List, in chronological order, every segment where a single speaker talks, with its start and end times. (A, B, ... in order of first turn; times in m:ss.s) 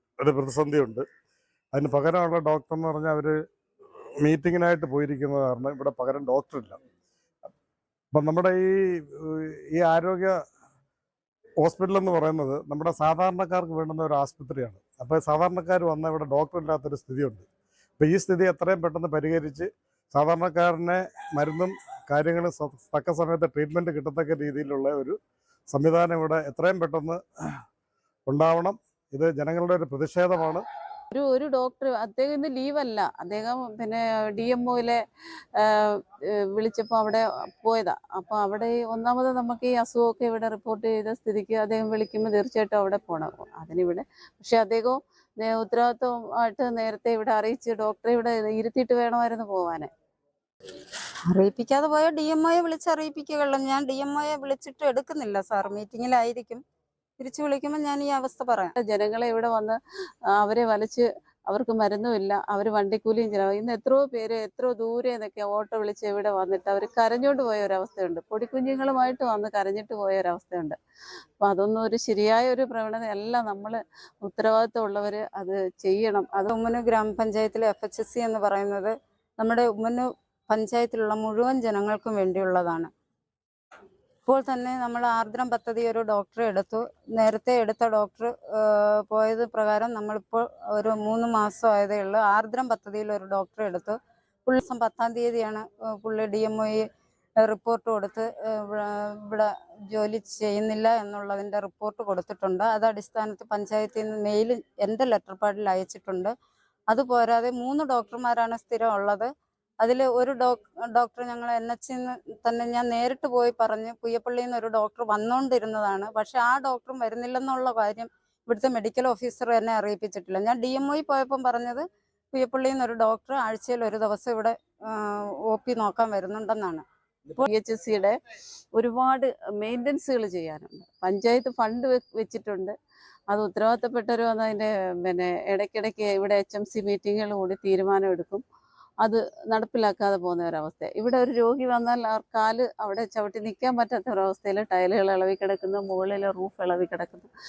0:00.2-0:01.0 A
0:01.7-0:03.4 A
0:04.2-0:06.8 A
0:08.1-0:10.4 A
0:11.6-0:17.5 A
0:18.0-0:25.2 A
0:25.7-0:27.2 A
0:28.3-0:30.6 A
0:31.1-0:35.0 B
0:35.6-0:49.9 B
0:51.3-0:56.6 C
0:57.2-0:58.7 C
0:58.8-0:59.8 B
1:00.3-1:10.8 B
1:11.4-1:16.4 B
1:16.4-1:22.9 C
1:24.3-1:36.9 C
1:37.4-1:46.3 C
1:46.9-1:49.3 C
1:49.8-2:06.8 C
2:07.4-2:08.2 B
2:08.8-2:12.8 B
2:13.3-2:18.4 B
2:19.0-2:27.3 B